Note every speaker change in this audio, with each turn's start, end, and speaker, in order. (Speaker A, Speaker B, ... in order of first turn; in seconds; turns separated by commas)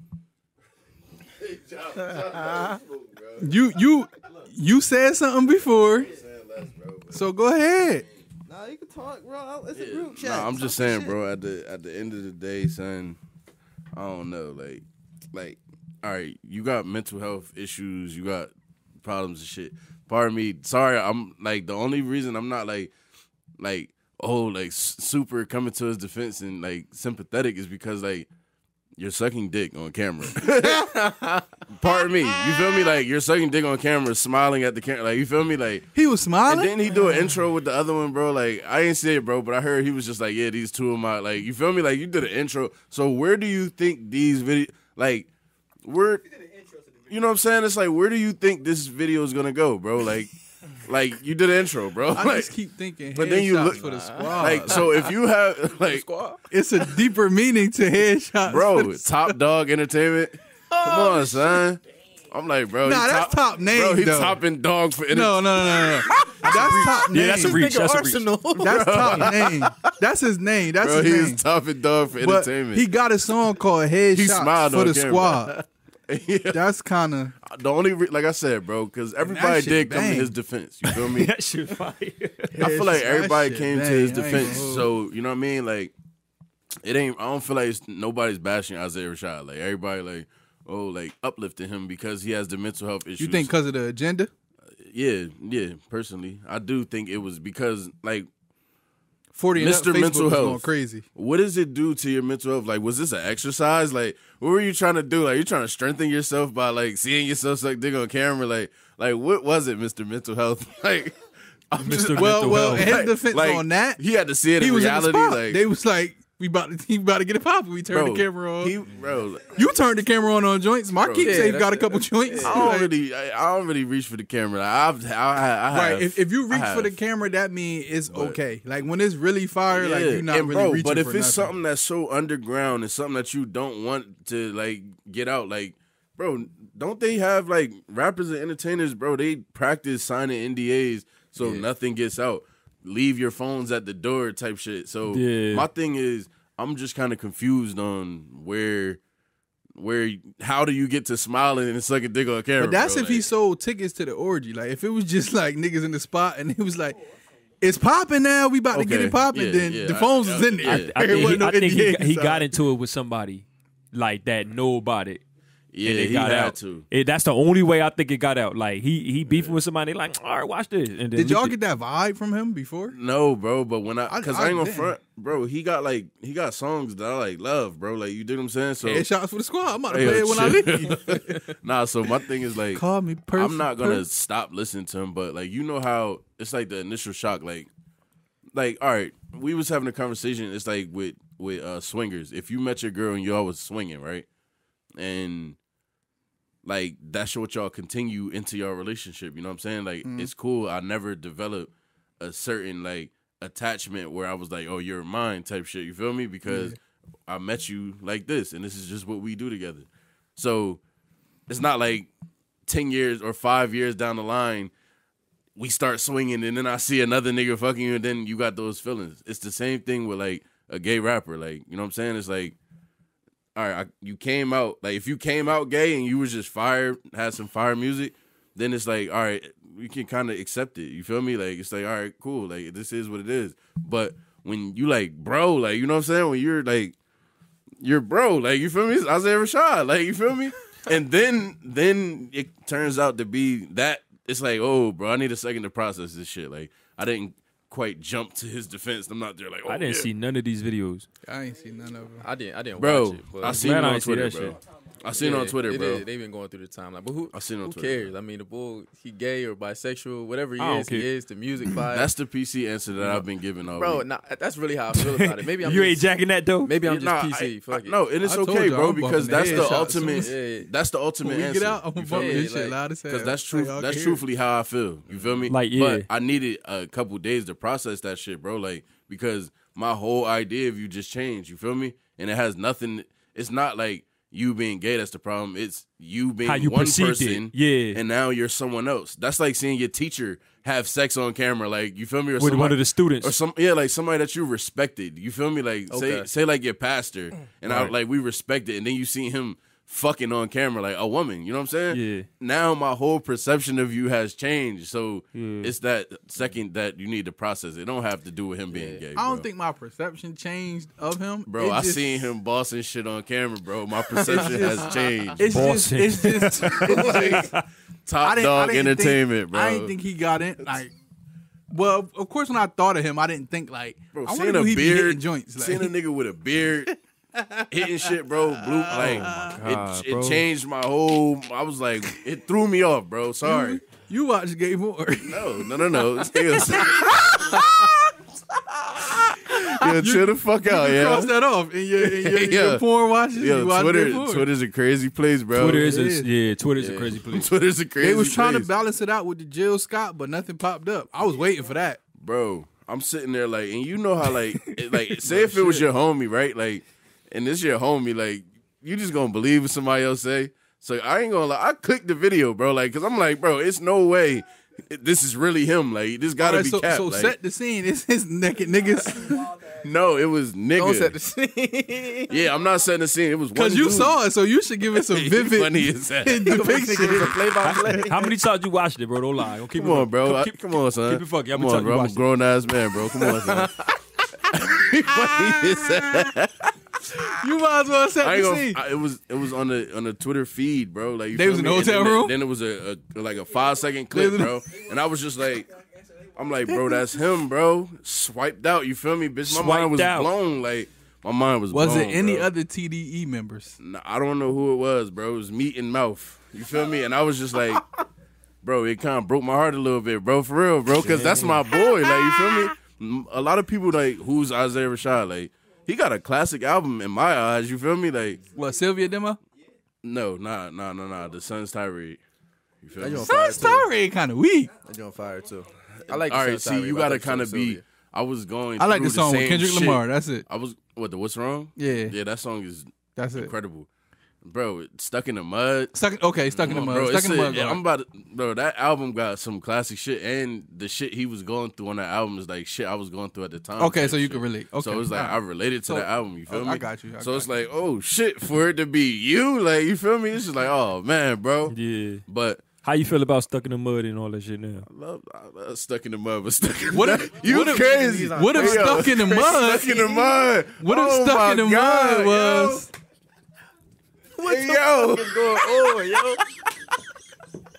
Speaker A: 1.2-3.6, Speaker B: 3.4-6.1, Speaker A: 5.7-7.3, Speaker B: 7.1-8.1, Speaker A: 7.9-8.3, Speaker C: 8.4-11.2, Speaker A: 9.7-13.2, Speaker A: 13.9-18.5, Speaker A: 19.0-22.9, Speaker A: 23.6-28.3, Speaker A: 29.0-30.9, Speaker D: 30.7-31.4, Speaker A: 31.7-35.9, Speaker B: 35.9-36.8, Speaker A: 36.5-45.3, Speaker A: 45.8-46.2, Speaker A: 47.1-50.3, Speaker A: 50.8-52.5, Speaker B: 52.1-54.9, Speaker A: 53.1-56.1, Speaker D: 53.7-55.2, Speaker D: 55.8-56.4, Speaker B: 56.5-59.4, Speaker A: 58.5-66.7, Speaker D: 60.7-61.6, Speaker B: 62.8-64.4, Speaker B: 65.1-67.6, Speaker E: 66.5-68.3, Speaker D: 67.0-69.5, Speaker B: 68.6-71.4, Speaker A: 68.6-69.7, Speaker A: 70.8-72.9, Speaker B: 72.2-75.6, Speaker A: 74.1-76.6, Speaker B: 76.5-77.3, Speaker A: 77.4-81.3, Speaker B: 79.2-80.3, Speaker E: 81.1-82.6, Speaker B: 82.5-84.9, Speaker A: 82.6-85.9, Speaker A: 86.8-93.5, Speaker B: 93.2-94.3, Speaker A: 94.8-98.3, Speaker B: 99.3-101.0, Speaker A: 99.5-111.2, Speaker A: 111.7-115.6, Speaker E: 111.8-113.0, Speaker B: 112.1-114.0, Speaker B: 114.6-118.8, Speaker A: 117.9-119.6, Speaker B: 119.5-122.9, Speaker A: 121.0-121.6, Speaker D: 121.2-122.7, Speaker A: 122.4-127.0, Speaker B: 125.7-131.5, Speaker A: 128.1-128.4, Speaker A: 129.7-149.0, Speaker D: 141.4-141.6, Speaker E: 145.1-145.7, Speaker A: 149.8-153.3, Speaker B: 152.6-157.0, Speaker B: 157.6-162.5, Speaker A: 158.7-161.4, Speaker E: 160.6-165.2, Speaker A: 165.7-166.8, Speaker E: 165.8-171.6, Speaker A: 169.3-169.6, Speaker B: 171.1-172.9, Speaker A: 172.9-179.1, Speaker B: 174.1-174.9, Speaker B: 178.8-181.4, Speaker A: 179.9-182.8, Speaker B: 182.7-184.0, Speaker A: 183.3-187.7, Speaker A: 188.5-194.2, Speaker A: 194.9-195.6, Speaker A: 196.6-210.8, Speaker B: 200.0-200.3, Speaker B: 206.4-206.8, Speaker A: 211.5-212.1, Speaker A: 212.7-214.7, Speaker A: 215.6-222.6, Speaker A: 223.6-236.9, Speaker A: 237.8-250.1, Speaker E: 249.7-251.1, Speaker B: 251.2-252.2, Speaker D: 252.2-253.6, Speaker A: 252.8-256.0, Speaker E: 253.4-254.6, Speaker D: 255.2-262.1, Speaker A: 257.3-258.1, Speaker E: 260.6-261.1, Speaker A: 261.9-264.0, Speaker D: 263.0-266.1, Speaker E: 264.9-266.7, Speaker D: 266.6-268.0, Speaker A: 266.8-272.5, Speaker B: 268.2-270.3, Speaker D: 269.3-270.7, Speaker B: 271.2-274.2, Speaker D: 272.1-272.8, Speaker A: 273.1-309.4, Speaker D: 275.1-275.5, Speaker E: 275.5-276.1, Speaker E: 286.4-288.0, Speaker E: 292.4-293.3, Speaker D: 295.9-296.3, Speaker E: 297.7-297.9, Speaker E: 301.9-302.3, Speaker E: 305.3-305.7, Speaker D: 308.7-309.0, Speaker B: 309.1-312.3, Speaker A: 311.5-315.5, Speaker D: 314.1-315.3, Speaker B: 314.2-314.8, Speaker B: 315.3-317.5, Speaker E: 315.5-317.6, Speaker A: 316.6-317.5, Speaker A: 318.1-319.9, Speaker B: 318.2-320.9, Speaker B: 321.7-325.9, Speaker A: 324.1-326.9, Speaker B: 326.9-329.6, Speaker A: 327.7-333.8, Speaker E: 328.9-330.4, Speaker B: 333.4-337.9, Speaker A: 335.2-337.8, Speaker A: 338.9-341.3, Speaker B: 339.4-344.5, Speaker A: 342.0-345.9, Speaker E: 345.5-347.5, Speaker B: 345.6-346.3, Speaker A: 347.1-348.7, Speaker B: 348.0-352.0, Speaker A: 352.2-367.3, Speaker B: 355.3-355.8, Speaker B: 366.4-369.5, Speaker A: 369.6-371.1, Speaker D: 370.7-372.3, Speaker A: 372.3-374.2, Speaker B: 373.5-377.5, Speaker A: 375.0-376.7, Speaker D: 376.4-378.3, Speaker E: 377.6-382.2, Speaker A: 379.7-387.4, Speaker D: 383.4-383.9, Speaker B: 387.3-388.8, Speaker A: 388.2-395.8, Speaker B: 391.3-392.4, Speaker B: 394.1-394.6, Speaker A: 396.3-402.5, Speaker E: 399.5-400.3, Speaker B: 401.7-403.7, Speaker A: 403.8-407.9, Speaker A: 408.6-418.4, Speaker E: 411.0-411.6, Speaker B: 418.5-419.4, Speaker A: 420.0-422.2, Speaker A: 422.8-423.8, Speaker D: 422.9-423.9, Speaker B: 423.2-424.7, Speaker D: 424.8-427.8, Speaker A: 426.1-433.9, Speaker B: 428.8-430.4, Speaker B: 431.8-432.1, Speaker B: 433.2-433.5, Speaker A: 434.4-436.0, Speaker B: 435.9-437.8, Speaker A: 436.5-451.8, Speaker B: 443.8-447.5, Speaker E: 451.7-452.2, Speaker A: 452.3-452.6, Speaker E: 452.8-454.9, Speaker A: 454.9-462.9, Speaker B: 456.9-460.1, Speaker D: 457.5-460.3, Speaker B: 460.8-462.9, Speaker D: 464.3-466.4, Speaker A: 464.4-466.1